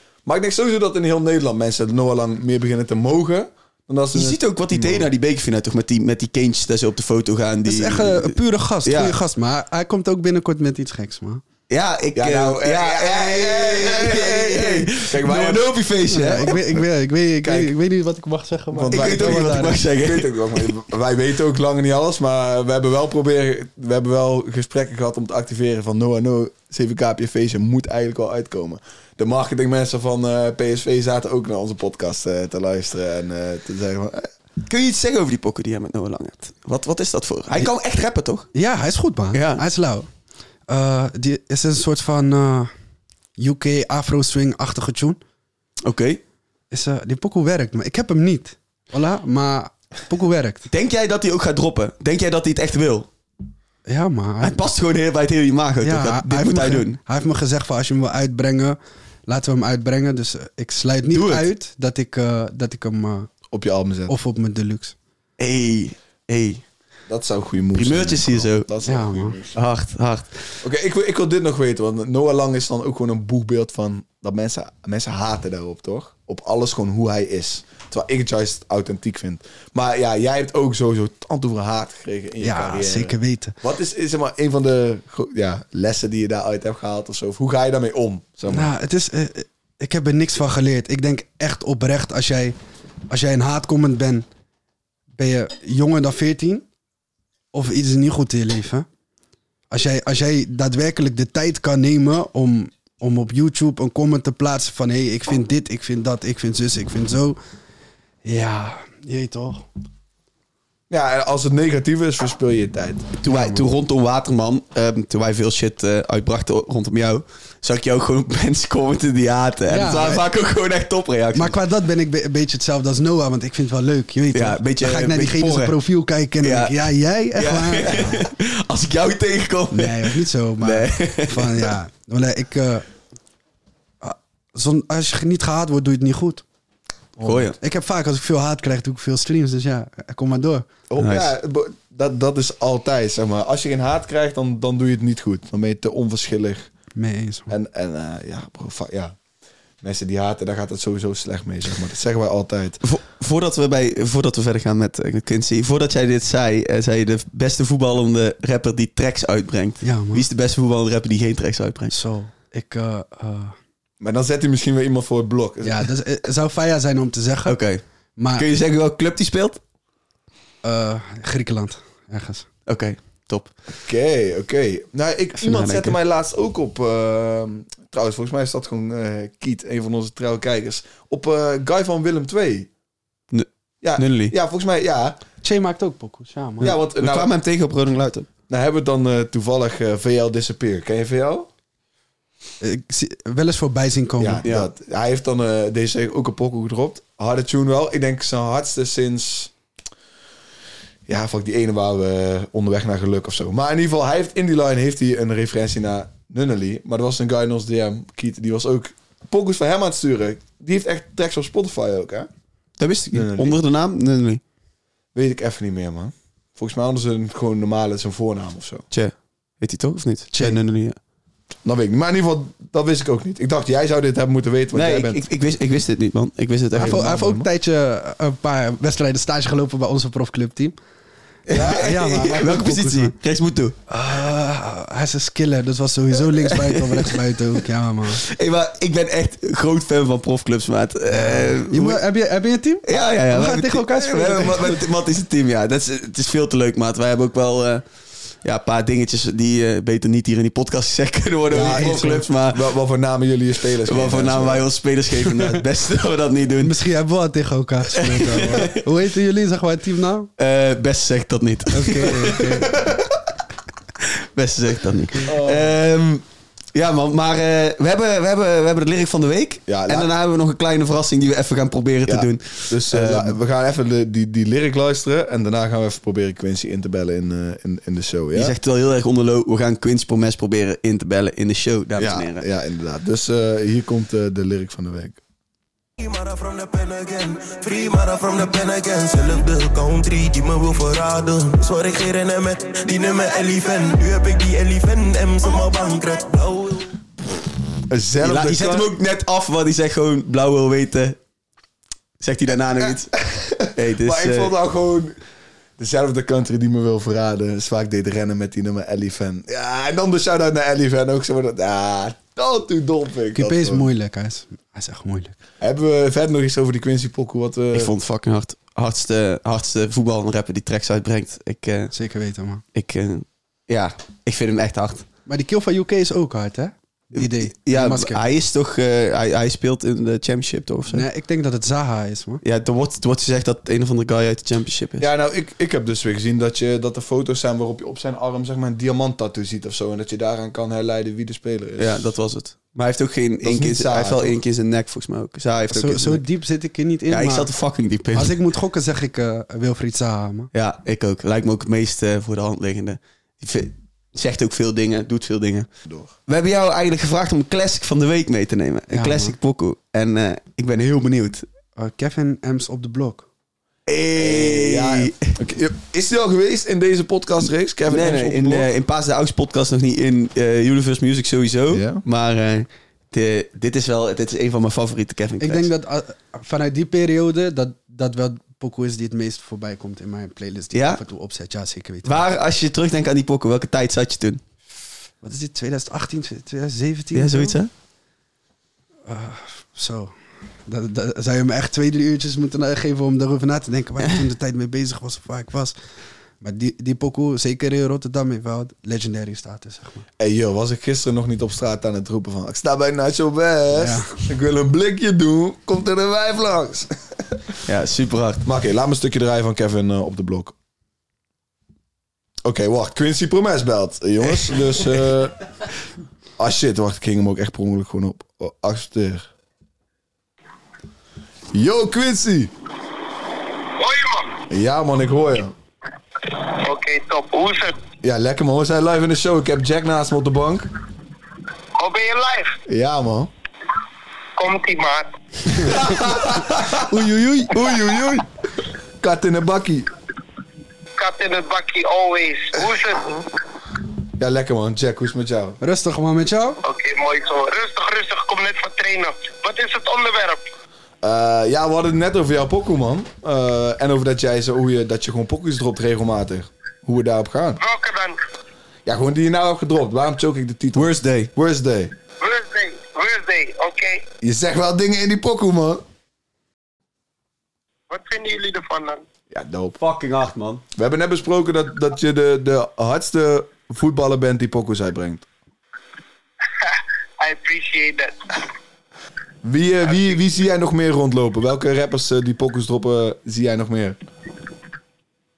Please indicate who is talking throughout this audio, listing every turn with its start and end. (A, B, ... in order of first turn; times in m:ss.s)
0:00.2-0:05.1 A
0:04.1-0:09.2 B
0:07.7-0:11.4 C
0:11.7-0:16.6 B
0:12.2-0:15.8 A
0:16.1-0:19.8 C
0:16.4-0:16.9 A
0:17.4-0:17.7 A
0:18.7-0:34.3 A
0:18.9-0:20.7 B
0:34.7-0:38.5 B
0:38.5-0:40.1 C
0:39.3-0:39.6 B
0:40.7-0:42.7 C
0:43.4-0:45.2 C
0:45.8-0:46.2 B
0:46.7-0:50.7 C
0:50.7-0:53.1 B
0:53.9-0:54.7 C
0:54.4-0:57.0 B
0:55.8-1:03.3 C
1:01.1-1:01.4 B
1:03.5-1:04.1 A
1:04.1-1:05.0 C
1:05.4-1:06.6 B
1:07.1-1:09.6 A
1:07.8-1:08.7 B
1:08.9-1:09.4 C
1:09.5-1:10.3 B
1:10.6-1:28.7 A
1:22.4-1:23.6 C
1:28.5-1:32.6 C
1:33.1-1:34.3 C
1:35.2-1:36.7 C
1:37.5-1:38.9 C
1:39.7-1:47.4 C
1:48.2-1:49.7 C
1:50.9-1:53.2 A
1:53.2-2:01.6 B
1:53.3-1:53.7 C
1:59.7-2:00.2 C
2:01.4-2:08.2 C
2:04.3-2:05.8 B
2:06.4-2:11.7 B
2:09.7-2:12.9 C
2:14.0-2:16.4 C
2:17.2-2:17.5 A
2:17.2-2:17.6 B
2:17.6-2:20.7 C
2:20.9-2:26.7 A
2:21.0-2:21.3 B
2:27.0-2:27.5 C
2:27.5-2:29.2 A
2:29.8-2:32.8 A
2:32.8-2:41.9 B
2:39.8-2:40.2 C
2:41.9-2:43.6 C
2:44.0-2:45.8 A
2:45.6-2:47.6 C
2:47.5-2:47.8 B
2:48.2-2:48.5 C
2:48.4-2:49.6 B
2:50.6-2:52.5 C
2:52.7-2:53.5 B
2:53.8-3:02.7 A
2:55.4-2:56.0 B
3:03.3-3:04.3 B
3:03.8-3:05.2 A
3:05.4-3:06.7 C
3:06.6-3:07.3 A
3:06.6-3:08.3 B
3:08.5-3:11.5 A
3:12.6-3:14.4 C
3:14.2-3:19.5 A
3:14.4-3:14.7 B
3:21.1-3:32.3 A
3:32.8-3:34.4 B
3:33.1-3:33.6 A
3:35.2-3:38.8 A
3:38.9-3:41.0 B
3:40.3-3:40.6 C
3:41.6-3:45.2 A
3:44.7-3:47.1 B
3:46.8-3:50.8 C
3:46.8-3:47.5 A
3:51.5-3:53.8 B
3:51.5-3:51.9 A
3:51.6-3:53.2 C
3:53.9-3:58.2 C
3:56.4-3:57.2 B
3:58.1-4:02.0 B
4:01.1-4:04.8 C
4:02.9-4:07.8 B
4:08.4-4:12.6 B
4:11.5-4:14.6 A
4:11.6-4:12.2 C
4:13.8-4:16.8 B
4:16.6-4:20.3 C
4:18.0-4:18.7 B
4:20.4-4:22.9 B
4:21.7-4:22.8 C
4:22.6-4:23.0 A
4:24.1-4:33.4 B
4:25.2-4:25.7 A
4:29.7-4:30.1 A
4:32.1-4:38.6 A
4:38.3-4:42.5 B
4:42.0-4:45.2 A
4:46.0-4:56.9 D
4:57.9-4:58.9 A
4:58.2-5:01.2 B
5:02.2-5:04.5 B
5:02.9-5:05.2 A
5:05.8-5:13.9 A
5:13.4-5:15.4 C
5:15.6-5:17.9 A
5:17.7-5:21.9 B
5:21.9-5:22.6 C
5:22.7-5:25.1 B
5:25.3-5:28.2 C
5:27.2-5:31.1 B
5:30.9-5:32.4 C
5:32.4-5:35.1 B
5:35.0-5:42.1 A
5:41.8-5:46.2 B
5:43.4-5:44.4 A
5:45.7-5:47.5 C
5:47.1-5:48.4 B
5:48.2-5:50.5 C
5:50.5-5:55.7 B
5:55.8-5:56.1 A
5:56.3-6:01.5 B
5:58.9-5:59.4 C
6:01.8-6:03.3 C
6:03.9-6:05.3 B
6:04.2-6:08.7 A
6:07.9-6:15.7 B
6:11.7-6:12.0 A
6:15.4-6:22.2 C
6:20.7-6:21.0 B
6:22.0-6:24.4 B
6:25.2-6:27.6 C
6:27.2-6:27.7 B
6:29.1-6:30.1 C
6:30.7-6:35.8 C
6:36.4-6:40.0 C
6:40.2-6:47.4 A
6:43.7-6:44.2 C
6:47.7-6:48.4 B
6:48.4-6:50.6 A
6:52.4-6:55.4 A
6:56.4-6:59.3 A
7:01.5-7:02.5 A
7:03.8-7:04.4 E
7:04.5-7:05.5 A
7:06.3-7:07.8 E
7:08.0-7:10.7 A
7:11.8-7:12.6 E
7:12.7-7:13.3 A
7:14.4-7:15.8 E
7:15.6-7:16.9 A
7:16.8-7:17.8 C
7:17.6-7:18.2 A
7:17.6-7:18.1 B
7:19.0-7:19.9 A
7:21.0-7:23.2 E
7:24.2-7:25.6 A
7:25.6-7:26.6 C
7:26.6-7:30.4 E
7:31.0-7:37.6 A
7:37.6-7:38.2 E
7:38.9-7:41.9 A
7:40.8-7:41.3 B
7:42.2-7:44.1 E
7:44.2-7:45.8 A
7:47.9-7:49.0 E
7:49.3-7:49.8 A
7:49.8-7:50.6 B
7:50.8-7:55.3 A
7:56.5-7:58.4 E
7:59.4-8:04.0 A